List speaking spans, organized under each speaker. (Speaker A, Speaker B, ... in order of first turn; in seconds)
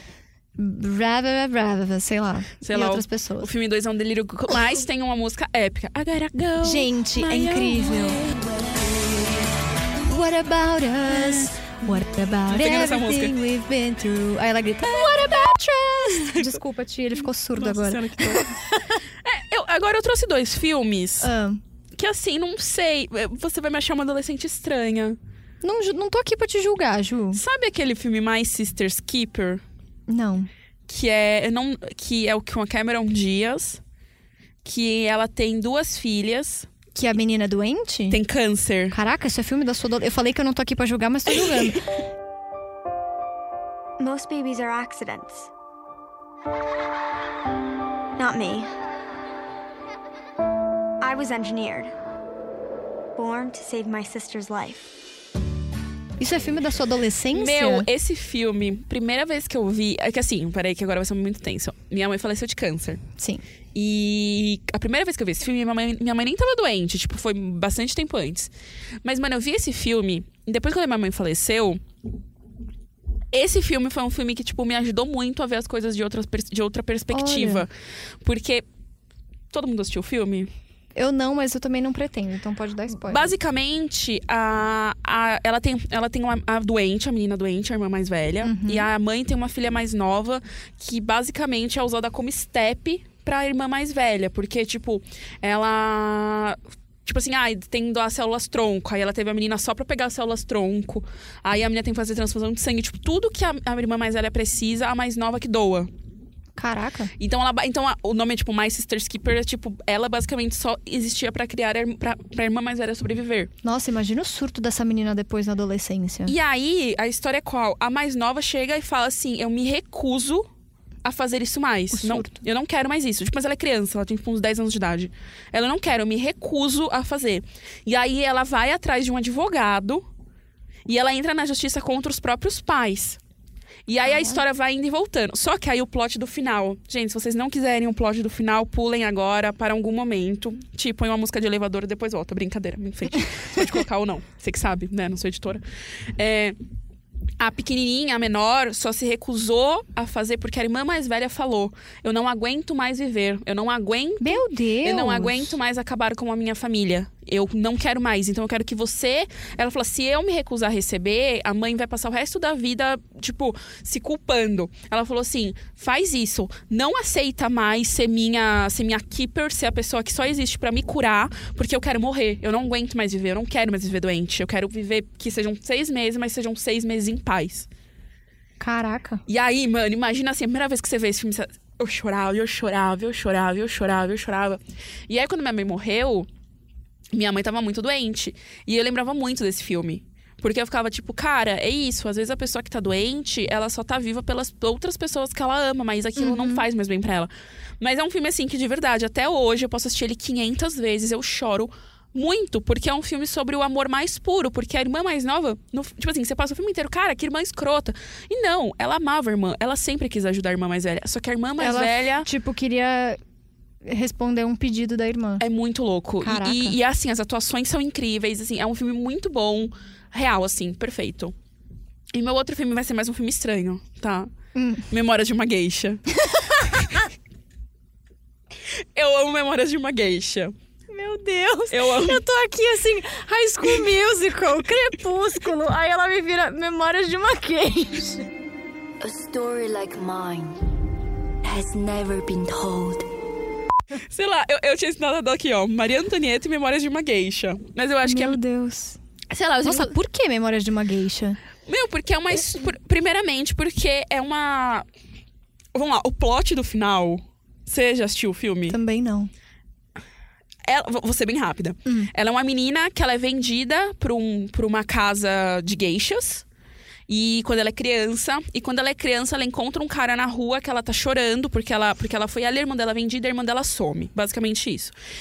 Speaker A: 0.6-3.5, 6.6-8.2, 10.1-18.9, 21.2-21.6, 25.6-27.4, 30.1-30.5, 37.0-38.2, 38.9-41.8, 56.2-57.9, 63.2-63.4, 77.1-77.7, 81.0-83.3, 88.4-88.9, 106.6-107.1, 113.6-116.3, 121.9-122.4, 134.0-134.4, 154.2-155.6, 178.6-179.2, 196.2-196.7, 211.6-213.2, 213.8-215.4, 216.2-216.8, 224.6-224.8, 226.3-227.0, 230.9-238.3, 248.0-249.0, 249.6-251.4, 258.7-259.3
Speaker B: 2.6-9.1, 12.5-13.4, 14.9-15.5, 16.2-16.6, 17.6-18.6, 19.2-21.3, 22.0-25.2, 27.3-29.6, 30.9-33.8, 34.6-36.7, 38.1-39.0, 57.3-63.0, 63.8-68.5, 69.0-71.8, 73.3-77.7, 78.2-78.6, 79.5-80.5, 83.0-105.9, 107.2-113.5, 116.3-120.5, 121.0-130.1, 130.9-133.2, 133.9-145.6, 146.2-146.6, 147.4-177.7, 179.3-186.3, 187.1-212.3, 215.4-221.3, 222.1-224.3, 224.9-226.0, 229.0-230.5, 231.7-232.2, 244.1-248.4, 249.3-249.9, 251.7-254.9, 255.7-258.8, 260.7-266.4, 267.1-274.9
Speaker C: 44.0-45.5, 48.2-48.7, 51.0-51.9, 53.2-54.9
Speaker D: 239.0-240.5, 241.7-242.8